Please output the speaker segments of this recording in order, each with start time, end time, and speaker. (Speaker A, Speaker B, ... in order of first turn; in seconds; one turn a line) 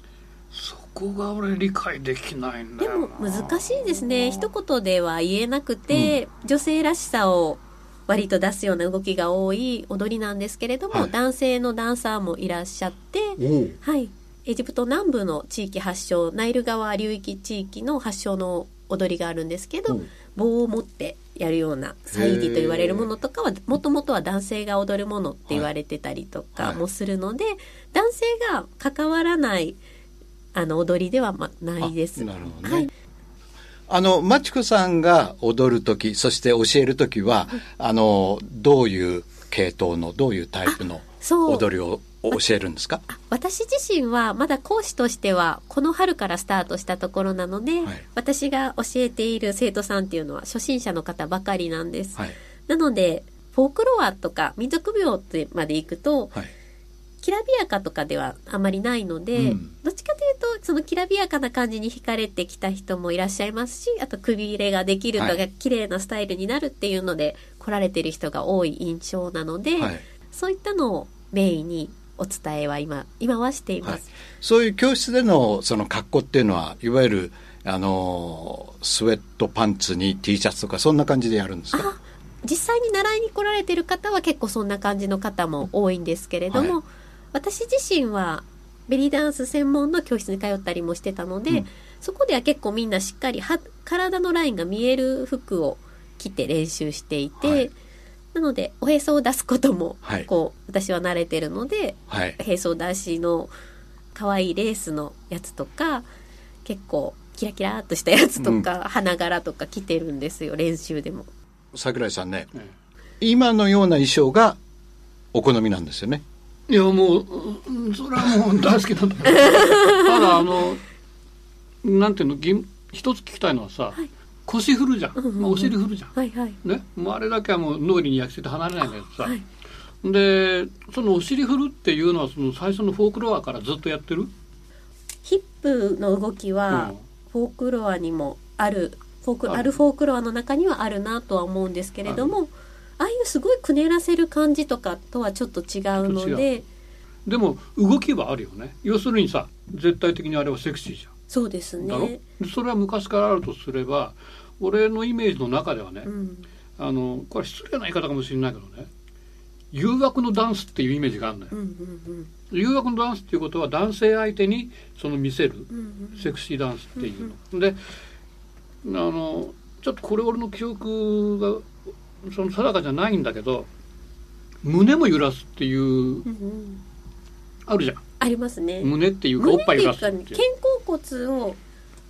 Speaker A: 0.5-3.8
Speaker B: 2.8-29.8
Speaker C: 5.9-6.2
Speaker C: 13.4-13.8
Speaker C: 22.1-23.1
Speaker B: 30.5-32.9
Speaker C: 31.8-32.9
Speaker C: 33.9-43.0
Speaker B: 40.7-41.6
Speaker B: 43.1-56.4
Speaker B: 57.2-74.2
Speaker C: 59.4-59.7
Speaker C: 73.8-81.9
Speaker B: 81.7-97.7
Speaker C: 97.4-97.7
Speaker B: 98.3-103.5
Speaker C: 102.1-102.4
Speaker B: 104.1-106.1
Speaker B: 106.7-111.3
Speaker C: 108.4-108.7
Speaker C: 111.7-112.5
Speaker C: 113.2-114.6
Speaker C: 115.3-116.2
Speaker A: 116.7-120.8
Speaker B: 119.6-120.0
Speaker A: 121.8-129.4
Speaker B: 125.2-126.6
Speaker A: 130.0-134.3
Speaker B: 135.2-146.6
Speaker A: 136.7-137.0
Speaker A: 142.1-142.3
Speaker A: 146.0-146.5
Speaker A: 147.3-151.1
Speaker B: 151.3-152.2
Speaker A: 151.8-156.1
Speaker B: 156.1-156.5
Speaker A: 156.8-158.9
Speaker A: 159.7-161.5
Speaker B: 161.5-162.3
Speaker A: 162.5-167.8
Speaker B: 165.7-166.3
Speaker B: 167.0-167.3
Speaker A: 168.8-171.7
Speaker A: 172.2-173.7
Speaker A: 174.6-176.3
Speaker B: 176.3-176.8
Speaker A: 177.7-178.0
Speaker B: 178.2-181.6
Speaker A: 178.8-180.4